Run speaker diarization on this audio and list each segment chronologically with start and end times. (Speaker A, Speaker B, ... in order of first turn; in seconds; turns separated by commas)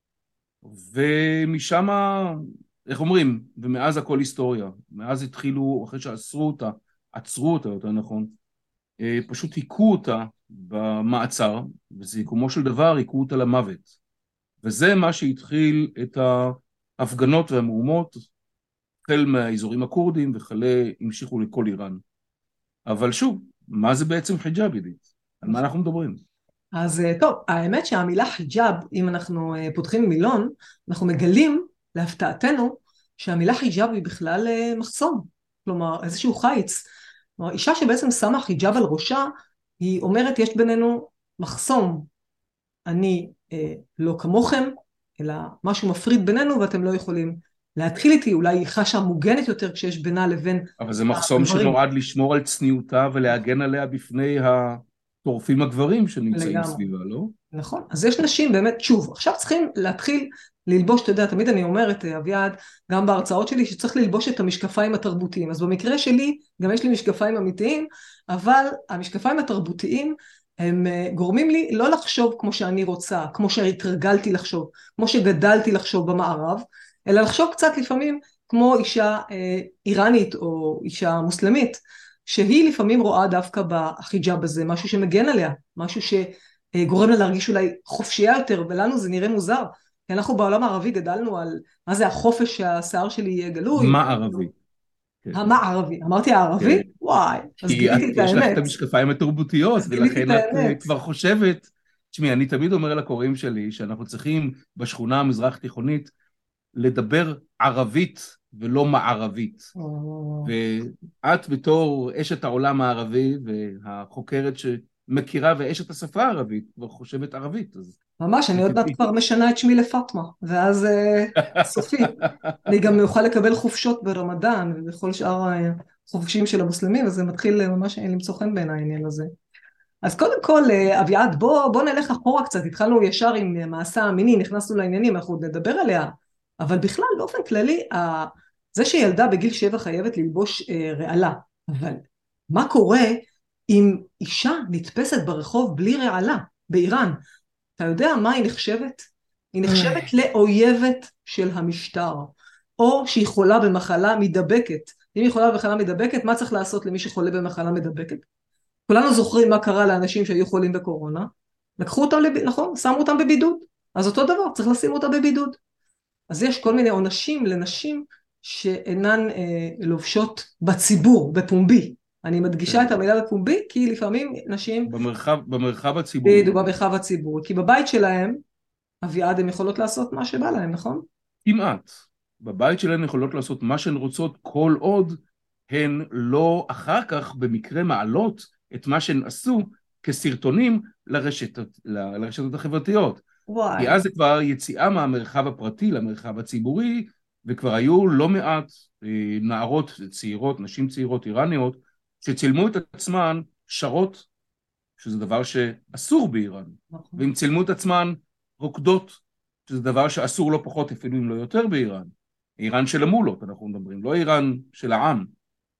Speaker A: 0.6-8.3, Speaker A: 9.0-13.9, Speaker A: 14.6-18.2, Speaker A: 19.0-22.0, Speaker A: 22.9-26.2, Speaker B: 26.7-39.3, Speaker B: 39.8-42.1, Speaker B: 42.9-51.8, Speaker A: 50.8-57.3, Speaker B: 56.3-56.8, Speaker B: 57.5-94.4, Speaker A: 93.7-94.5, Speaker B: 95.3-98.7, Speaker A: 96.6-96.8, Speaker A: 97.7-106.1, Speaker B: 99.8-100.9, Speaker A: 106.7-109.7, Speaker B: 109.7-110.5, Speaker A: 110.4-118.0, Speaker B: 118.2-129.3, Speaker A: 118.6-119.0, Speaker A: 122.5-122.7, Speaker B: 130.0-147.2, Speaker B: 147.8-158.2, Speaker A: 149.7-150.0, Speaker B: 158.9-161.3, Speaker B: 161.8-165.6, Speaker B: 166.3-174.9, Speaker A: 172.6-173.0, Speaker A: 174.8-176.7, Speaker B: 176.2-178.4, Speaker B: 179.0-181.0, Speaker A: 181.4-193.2, Speaker B: 193.5-194.0, Speaker A: 193.8-204.3, Speaker A: 205.0-215.3, Speaker B: 206.9-207.2